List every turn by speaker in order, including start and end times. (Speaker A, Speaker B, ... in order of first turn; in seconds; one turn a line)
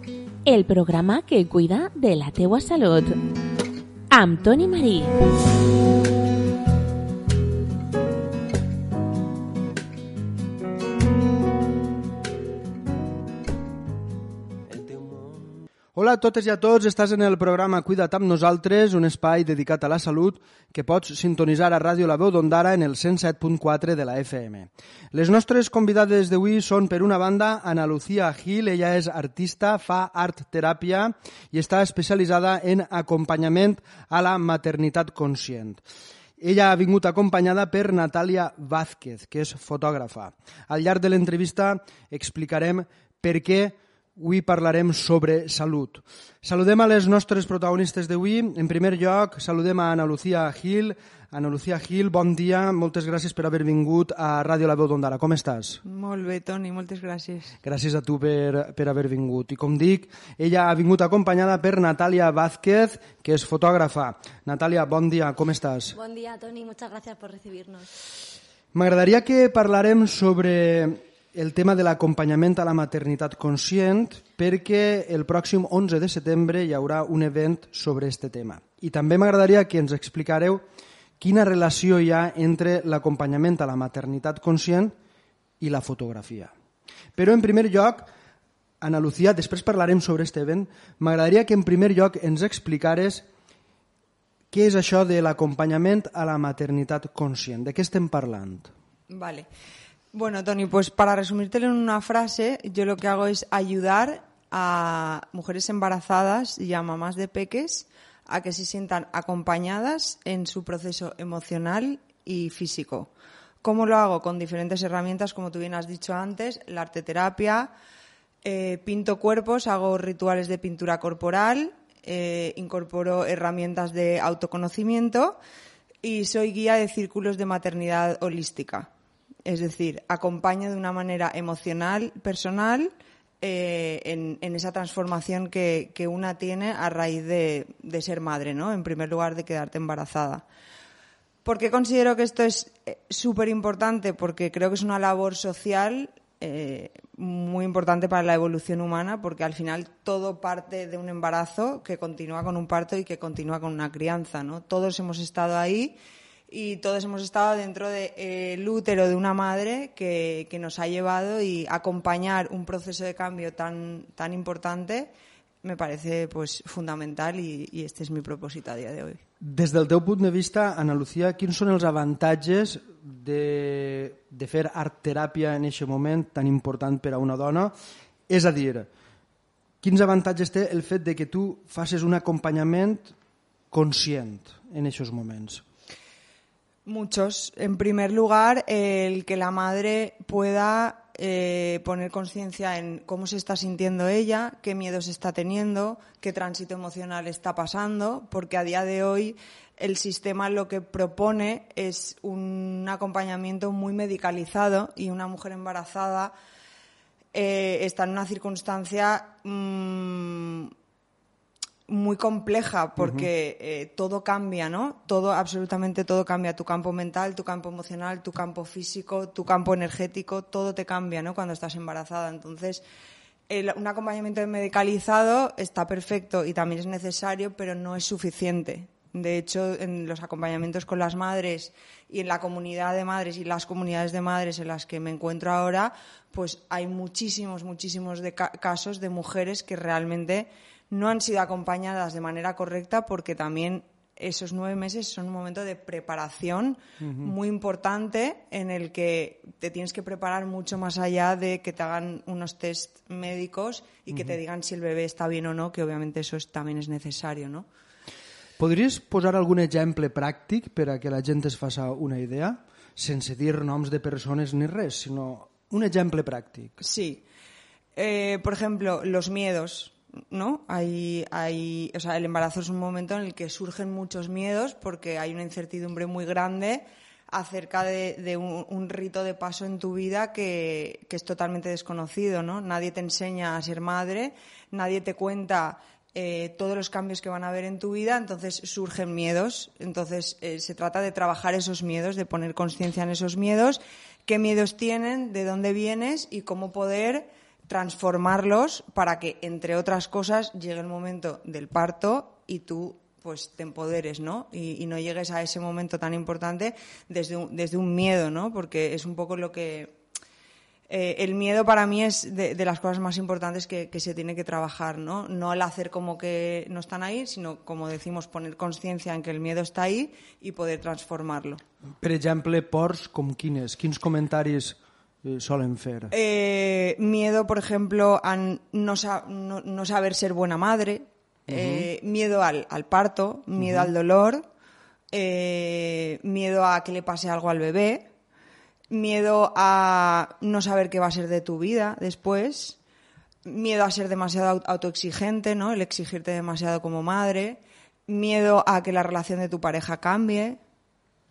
Speaker A: 0.5-3.2
Speaker A: 4.1-5.1
Speaker B: 15.9-35.8
Speaker B: 36.4-55.8
Speaker C: 55.8-57.5
Speaker B: 57.6-66.0
Speaker D: 65.9-67.9
Speaker B: 68.7-80.6
Speaker B: 81.2-84.9
Speaker B: 85.6-86.5
Speaker B: 87.2-88.1
Speaker B: 88.8-93.2
Speaker B: 94.5-98.7
Speaker C: 99.1-99.5
Speaker C: 100.1-113.1
Speaker C: 113.6-117.7
Speaker C: 118.4-125.4
Speaker C: 126.0-128.9
Speaker C: 129.4-140.4
Speaker C: 141.4-155.9
Speaker C: 156.5-165.1
Speaker C: 165.6-169.2
Speaker B: 169.4-177.7
Speaker B: 178.3-178.9
Speaker B: 179.8-183.1
Speaker B: 183.7-185.6
Speaker C: 186.8-206.3
Speaker C: 207.3-210.7
Speaker C: 211.9-222.8
Speaker B: 213.0-213.3
Speaker C: 223.5-257.6
Speaker B: 247.0-247.3
Speaker B: 254.1-254.3
Speaker B: 258.6-266.8
Speaker C: 266.8-267.2
Speaker C: 267.9-310.0
Speaker C: 310.9-321.6
Speaker B: 322.0-326.1
Speaker C: 326.1-334.4
Speaker B: 331.5-331.9
Speaker B: 333.6-333.9
Speaker C: 335.1-338.1
Speaker C: 338.9-342.8
Speaker C: 343.4-350.6